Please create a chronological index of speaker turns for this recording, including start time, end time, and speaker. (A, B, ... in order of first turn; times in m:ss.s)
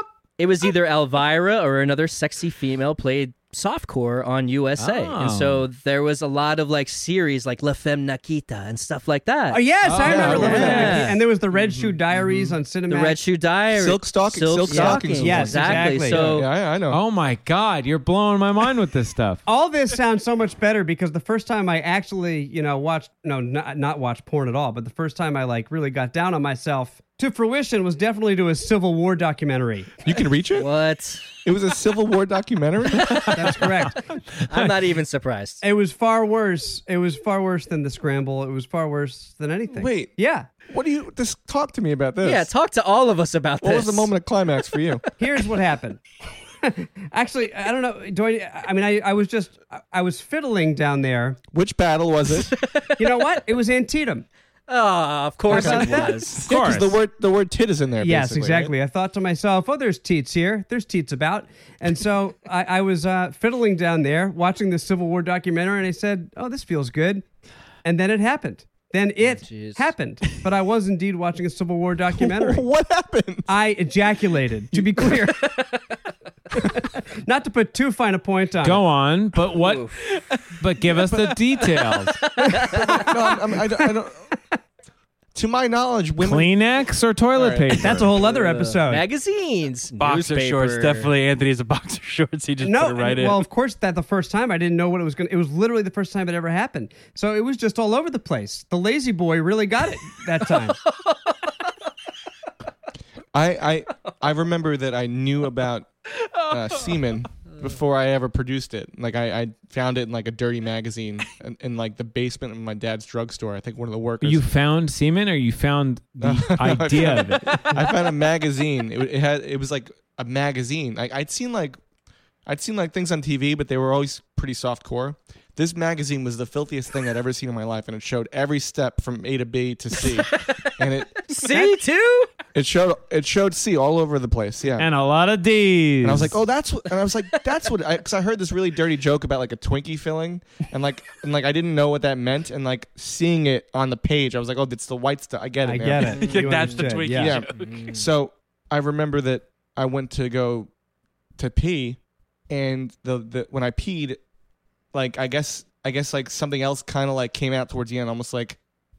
0:00.4-0:09.6 A
0:04.8-0:05.7 B
0:09.5-0:13.2 C
0:09.8-0:12.4 B
0:10.0-0:11.1 D
0:10.2-0:11.2 A
0:12.9-0:16.5 A
0:13.7-0:17.0 D
0:14.7-0:16.4 C
0:16.9-0:19.4 B
0:19.4-0:30.0 C
0:30.0-0:30.7 D
0:30.5-0:31.3 A
0:31.4-0:33.3 D
0:33.0-0:34.7 B
0:33.3-0:34.0 C
0:34.5-0:35.6 A
0:35.6-0:40.5 C
0:39.7-0:40.1 D
0:40.7-0:42.5 D
0:42.2-0:44.1 A
0:43.6-0:45.0 D
0:45.2-0:46.0 C
0:46.6-0:51.4 C
0:51.5-0:52.5 D
0:52.6-0:53.1 A
0:53.0-0:54.2 C
0:54.7-0:56.4 A
0:55.5-0:56.3 C
0:55.5-0:58.7 D
0:56.4-0:57.0 B
0:58.0-1:07.2 C
1:07.8-1:12.6 C
1:09.2-1:09.9 A
1:12.1-1:13.5 D
1:13.5-1:15.5 C
1:15.5-1:15.8 A
1:16.6-1:18.8 C
1:18.6-1:19.8 B
1:19.6-1:20.0 A
1:20.6-1:22.2 B
1:21.0-1:21.3 E
1:22.4-1:23.1 A
1:22.4-1:23.1 C
1:22.9-1:24.2 D
1:25.3-1:26.5 D
1:26.2-1:28.1 B
1:27.3-1:28.1 D
1:27.8-1:29.0 C
1:28.2-1:31.1 A
1:30.0-1:33.4 E
1:32.6-1:40.8 C
1:43.3-1:45.9 D
1:46.5-1:54.4 D
1:54.2-1:57.7 B
1:56.2-2:01.8 D
2:02.4-2:11.2 D
2:10.0-2:12.3 A
2:11.5-2:11.8 C
2:12.5-2:14.9 D
2:14.8-2:16.4 B
2:16.0-2:26.3 D
2:25.6-2:27.4 C
2:26.0-2:28.0 E
2:26.2-2:26.9 A
2:27.1-2:30.7 D
2:27.6-2:28.0 A
2:31.4-2:32.0 D
2:32.5-2:34.2 D
2:34.9-2:38.6 D